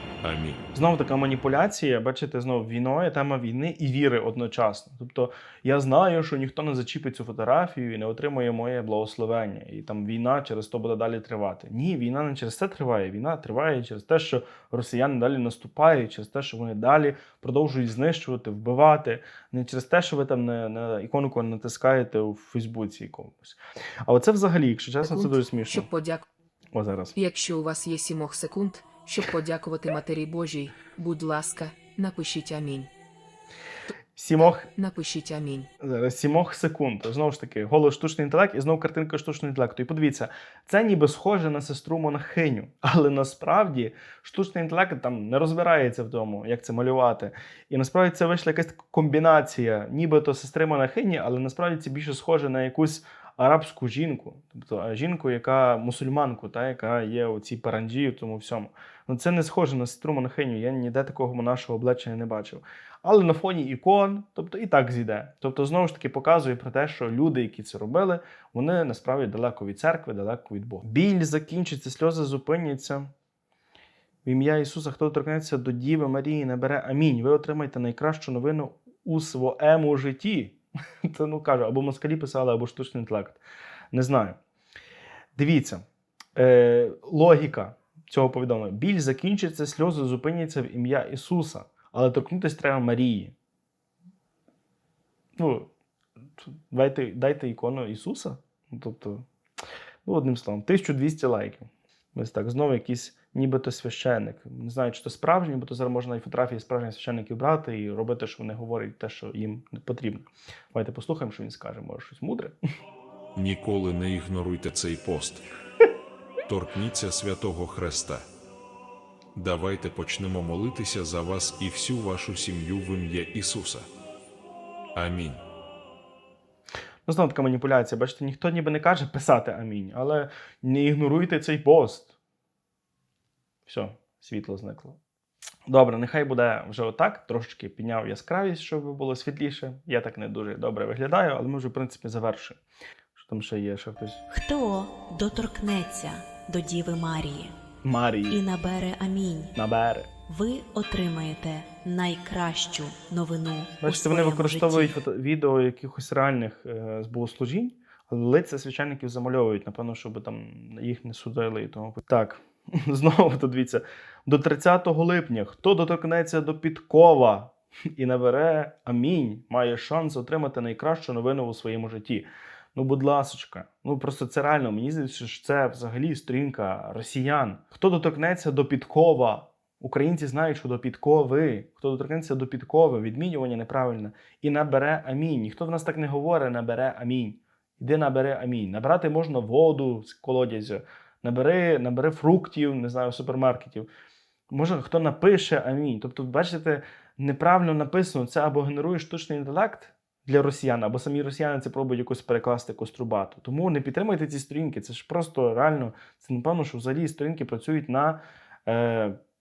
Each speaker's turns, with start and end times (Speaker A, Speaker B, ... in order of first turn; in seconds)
Speaker A: 0.2-0.6, 113.3-115.4, 116.5-118.3, 119.3-123.9, 125.0-125.4
Speaker B: 0.7-25.9, 26.7-27.1, 34.1-34.7, 35.8-73.1, 74.2-83.4, 83.9-84.4, 85.4-85.8, 86.4-93.3, 95.4-95.7, 96.4-99.3, 100.1-112.5, 127.1-132.1, 133.7-135.0, 135.7-142.6, 143.2-144.2, 147.8-148.4, 149.6-150.1, 153.8-193.9, 194.5-209.2
Speaker C: 25.1-26.3, 27.1-32.9, 34.7-35.7
Speaker D: 144.3-147.5, 148.3-149.6, 150.3-155.0